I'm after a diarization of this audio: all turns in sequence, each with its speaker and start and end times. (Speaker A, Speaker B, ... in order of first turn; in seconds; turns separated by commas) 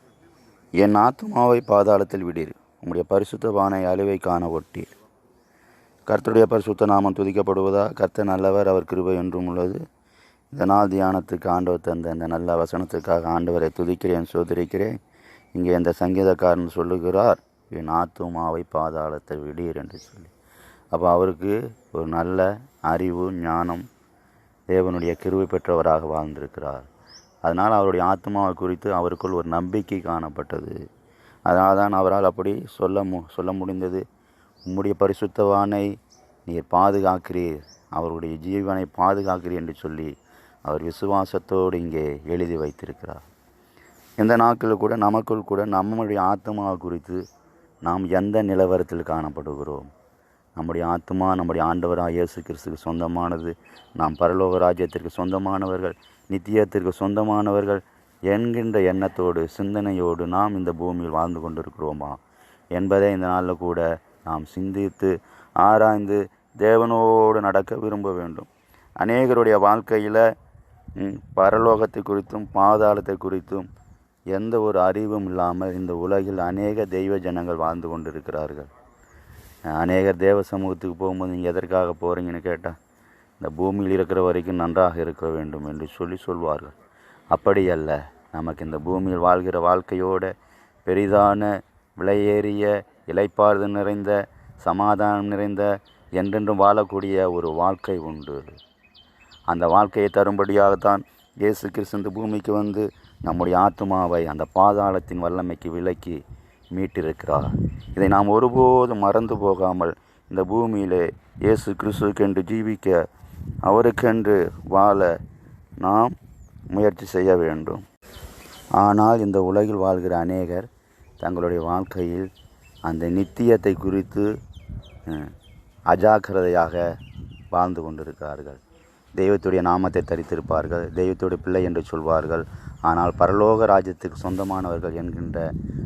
Speaker A: 0.8-4.9, Speaker A: 6.1-9.8, Speaker A: 10.5-14.9, Speaker A: 15.5-20.3, Speaker A: 20.9-23.8, Speaker A: 24.7-26.9, Speaker A: 27.4-30.8, Speaker A: 31.4-34.0, Speaker A: 34.7-35.9, Speaker A: 36.5-40.1, Speaker A: 40.6-43.2, Speaker A: 44.2-47.2, Speaker A: 47.8-49.9, Speaker A: 50.5-62.2, Speaker A: 62.7-68.5, Speaker A: 69.0-70.2, Speaker A: 71.0-73.7, Speaker A: 74.3-78.7, Speaker A: 79.7-82.8, Speaker A: 83.4-86.7, Speaker A: 87.3-90.3, Speaker A: 90.8-98.6, Speaker A: 99.5-106.2, Speaker A: 106.7-113.0, Speaker A: 113.6-115.2, Speaker A: 115.8-116.2, Speaker A: 116.7-117.8, Speaker A: 118.8-120.7, Speaker A: 121.2-122.3, Speaker A: 122.8-124.3, Speaker A: 125.1-125.3, Speaker A: 125.9-126.8, Speaker A: 127.5-128.6, Speaker A: 129.1-135.5